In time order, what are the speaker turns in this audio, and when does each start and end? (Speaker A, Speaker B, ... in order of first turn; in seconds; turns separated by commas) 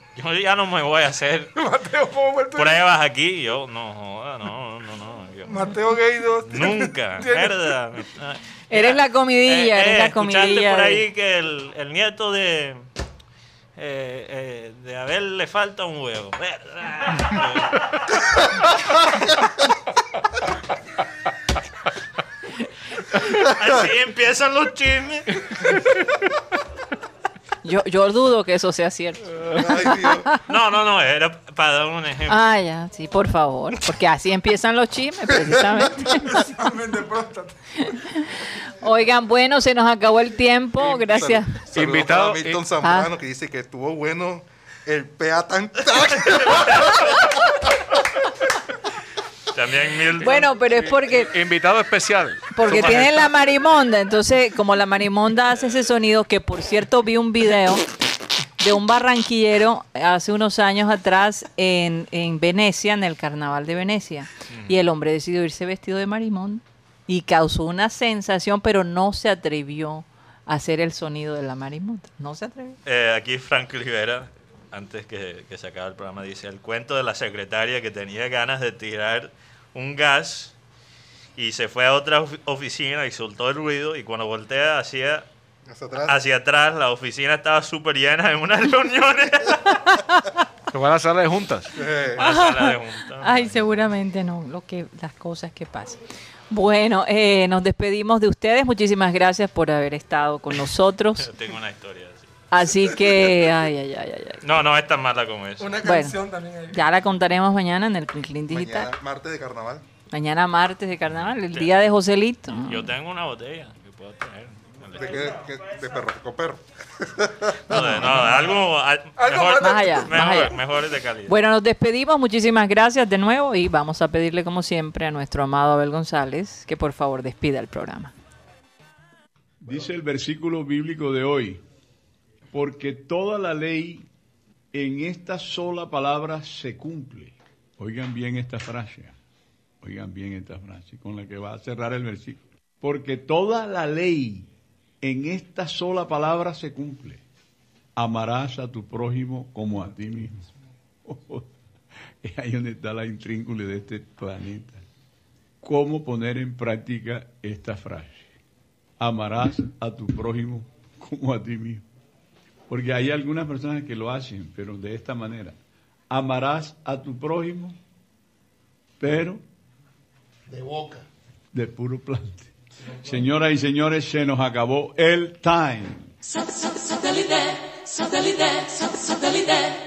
Speaker A: 0.2-1.6, Speaker B: 1.6-2.8, Speaker A: 2.5-5.7, Speaker B: 5.5-7.8, Speaker A: 6.4-12.8, Speaker C: 8.7-11.0, Speaker A: 13.8-18.2, Speaker A: 23.1-25.6, Speaker C: 27.6-30.4, Speaker D: 29.5-30.3, Speaker A: 30.5-32.4, Speaker C: 32.3-36.5, Speaker B: 36.2-37.6, Speaker C: 37.8-41.6, Speaker D: 40.8-47.7, Speaker E: 41.7-42.6, Speaker C: 42.8-43.1, Speaker A: 49.5-50.5, Speaker C: 50.2-51.3, Speaker E: 50.4-53.3, Speaker C: 52.5-57.9, Speaker C: 58.6-72.8, Speaker A: 72.8-80.5, Speaker A: 81.4-85.3, Speaker D: 85.7-86.2, Speaker A: 86.0-89.9, Speaker C: 89.7-90.3, Speaker E: 90.7-91.8, Speaker D: 91.8-92.2, Speaker A: 92.2-93.7, Speaker C: 92.2-101.3, Speaker A: 101.2-102.3, Speaker C: 102.5-104.4, Speaker A: 104.4-105.8, Speaker B: 105.6-106.8, Speaker C: 105.8-106.2, Speaker C: 106.7-108.9, Speaker D: 108.5-109.8, Speaker C: 110.1-113.0, Speaker A: 111.1-111.7, Speaker A: 112.6-115.3, Speaker D: 115.0-118.1, Speaker A: 117.7-121.4, Speaker C: 117.7-118.4, Speaker B: 119.2-120.2, Speaker C: 119.6-120.6, Speaker C: 121.3-128.1, Speaker F: 129.6-131.6, Speaker F: 132.5-134.1, Speaker F: 134.7-139.2, Speaker F: 139.8-144.5, Speaker F: 145.0-147.2, Speaker F: 148.0-150.5, Speaker F: 151.1-151.5, Speaker F: 152.2-154.8, Speaker F: 155.6-158.3, Speaker F: 159.0-161.9, Speaker F: 162.7-165.6, Speaker F: 166.1-167.8, Speaker F: 169.0-169.4, Speaker F: 171.5-176.2, Speaker F: 177.9-179.6